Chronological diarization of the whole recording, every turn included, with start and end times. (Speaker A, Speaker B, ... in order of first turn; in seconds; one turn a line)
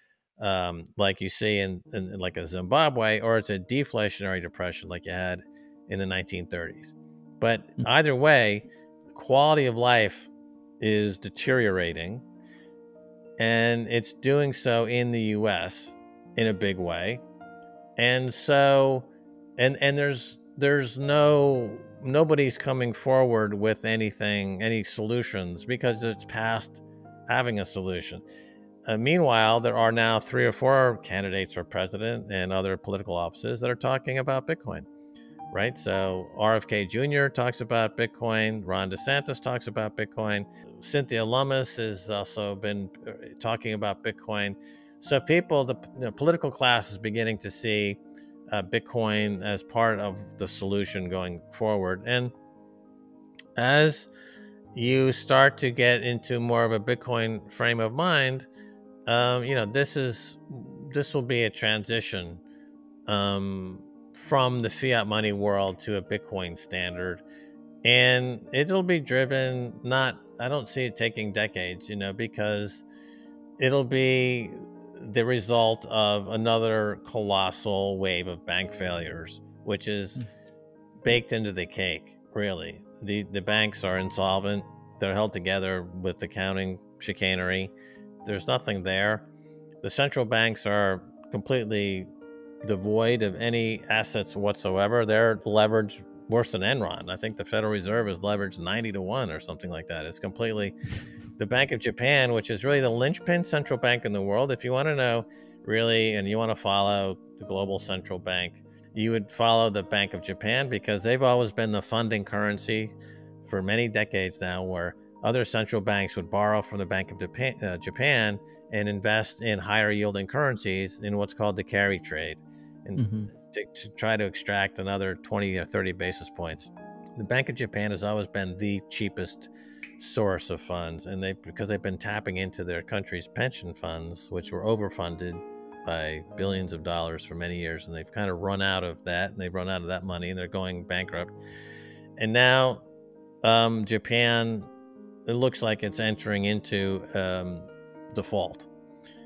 Speaker A: 0.4-12.2
Speaker A: 13.4-17.2
Speaker A: 18.0-28.2
Speaker A: 28.9-34.9
Speaker A: 35.5-52.3
Speaker A: 53.6-54.1
Speaker A: 54.7-58.5
Speaker A: 59.1-62.4
Speaker A: 63.1-67.2
Speaker A: 67.8-72.8
Speaker A: 73.6-80.3
Speaker A: 81.0-87.7
Speaker A: 88.2-89.3
Speaker A: 89.8-92.1
Speaker A: 92.6-100.8
Speaker A: 101.4-113.0
Speaker A: 113.5-141.3
Speaker A: 142.2-142.8
Speaker A: 143.4-144.7
Speaker A: 145.3-148.7